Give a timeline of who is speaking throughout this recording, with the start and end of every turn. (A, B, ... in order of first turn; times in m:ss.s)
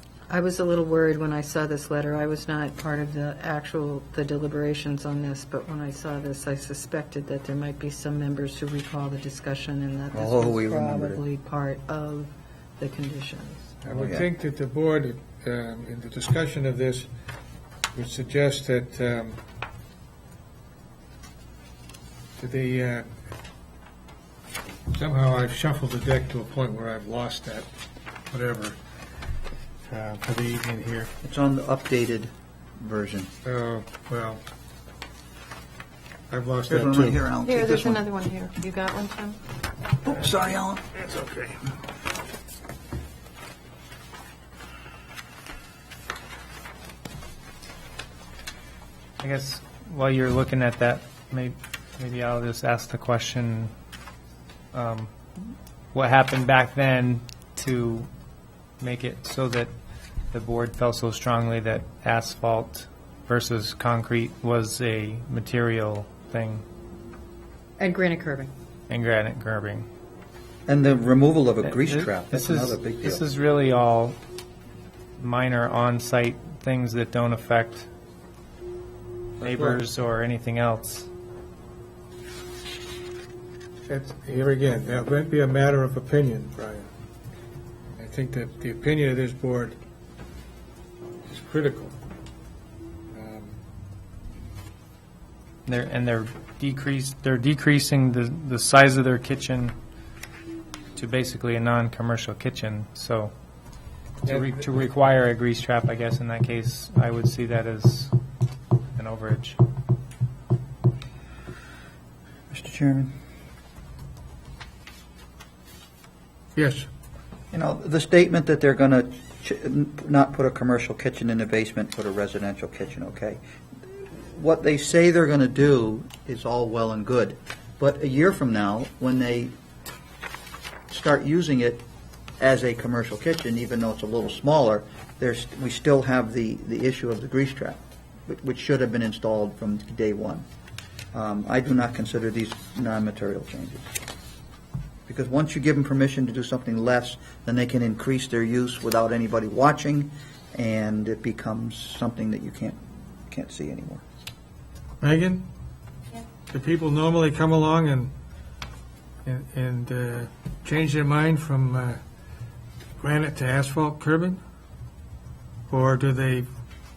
0:00.3-0:13.8 A
0:10.1-0:11.2 B
0:13.8-0:17.1 C
0:13.9-0:14.3 B
0:17.9-0:19.4 C
0:22.4-0:23.1 C
0:24.9-0:27.7 C
0:28.3-0:28.8 C
0:29.9-0:31.1 C
0:31.2-0:33.3 B
0:33.4-0:34.4 C
0:36.3-0:37.2 C
0:36.7-0:38.0 B
0:37.4-0:39.4 A
0:40.0-0:41.5 B
0:49.2-0:53.7 D
0:54.7-0:55.1 D
0:55.9-0:58.1 D
0:58.8-0:59.7 D
1:00.3-1:06.6 D
1:07.8-1:08.5 A
1:08.9-1:09.9 D
1:10.7-1:13.2 B
1:11.6-1:14.2 D
1:15.2-1:17.9 D
1:19.4-1:21.1 D
1:19.4-1:19.8 C
1:23.9-1:26.9 C
1:27.9-1:29.8 C
1:31.3-1:32.0 C
1:33.1-1:33.6 C
1:35.7-1:39.8 D
1:41.0-1:43.3 D
1:44.2-1:48.1 D
1:49.0-1:49.6 D
1:52.5-1:53.1 B
1:56.6-1:56.9 C
1:57.5-2:03.4 B
2:03.9-2:09.5 B
2:10.9-2:11.8 B
2:12.4-2:20.4 B
2:21.1-2:23.9 B
2:25.1-2:32.8 B
2:33.3-2:34.0 B
2:35.0-2:35.4 C
2:36.5-2:38.1 C
2:39.2-2:42.0 C
2:43.0-2:44.4 C
2:45.7-2:46.5 C